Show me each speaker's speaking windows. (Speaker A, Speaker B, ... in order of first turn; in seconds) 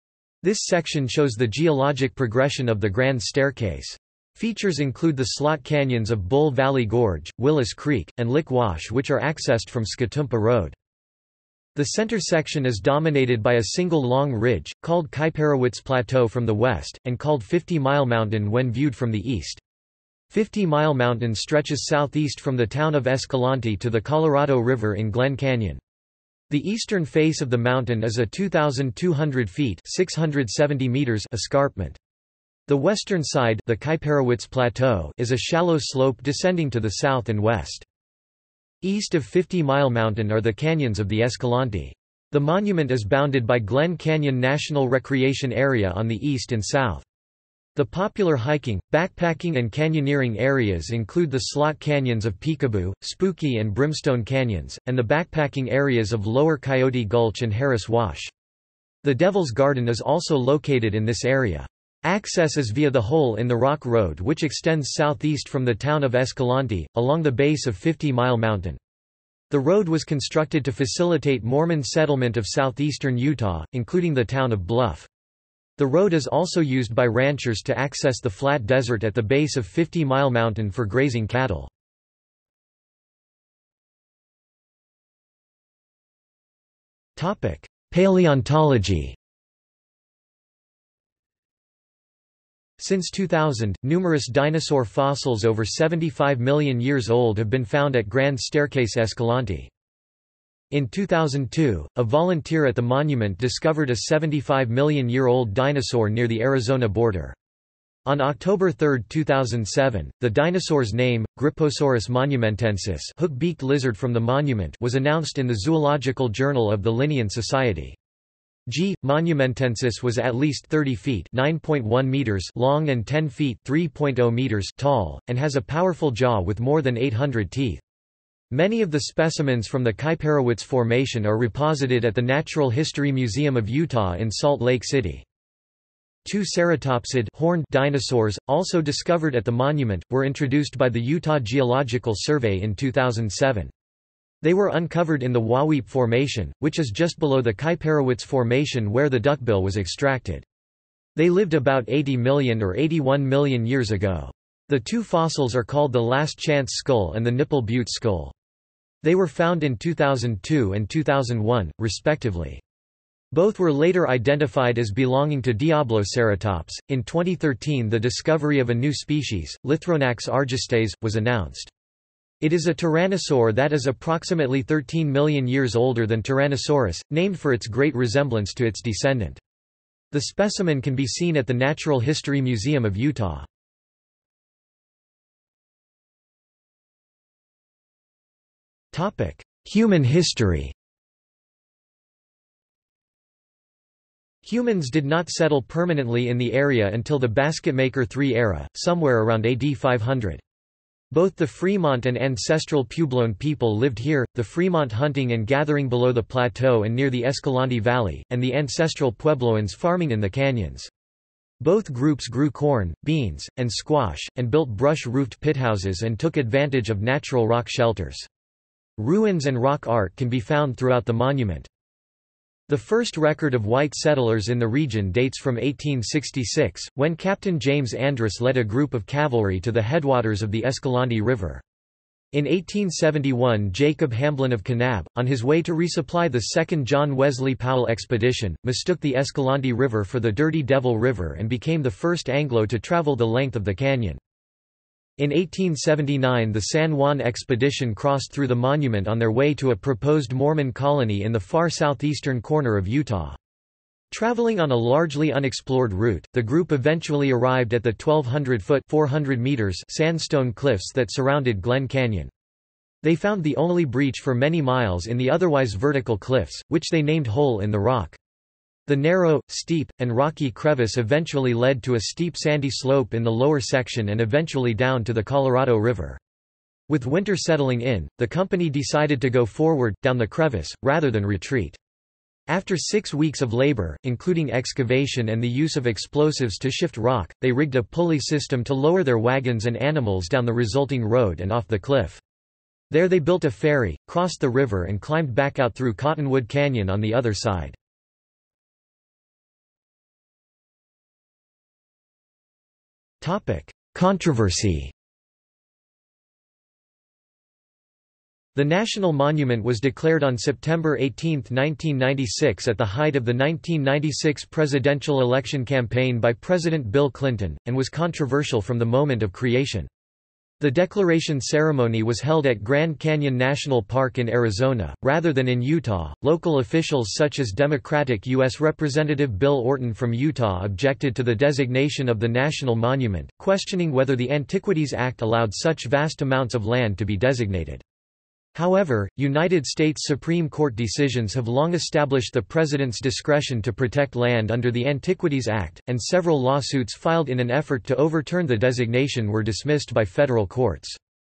Speaker A: 0.4-10.8, 11.7-19.6, 20.3-25.8, 26.5-32.0, 32.7-37.9, 38.8-47.0, 47.7-58.3, 59.0-68.8, 69.5-75.1, 75.8-81.7, 87.2-89.2, 92.8-99.7, 100.7-107.3, 108.0-118.0, 118.7-127.8, 128.5-135.2, 136.2-143.7, 144.4-150.4, 151.2-158.3, 159.0-162.6, 163.3-171.7, 172.4-179.4, 180.1-183.5, 188.9-190.7, 194.4-200.4, 201.1-210.9, 211.6-218.3, 219.0-221.7, 222.7-231.6, 232.3-244.2, 245.2-253.4, 254.1-262.3, 263.0-268.2, 268.9-276.2, 276.9-281.8, 282.5-292.2, 292.9-297.8, 303.2-304.9, 308.5-319.9, 320.6-337.8, 338.5-351.0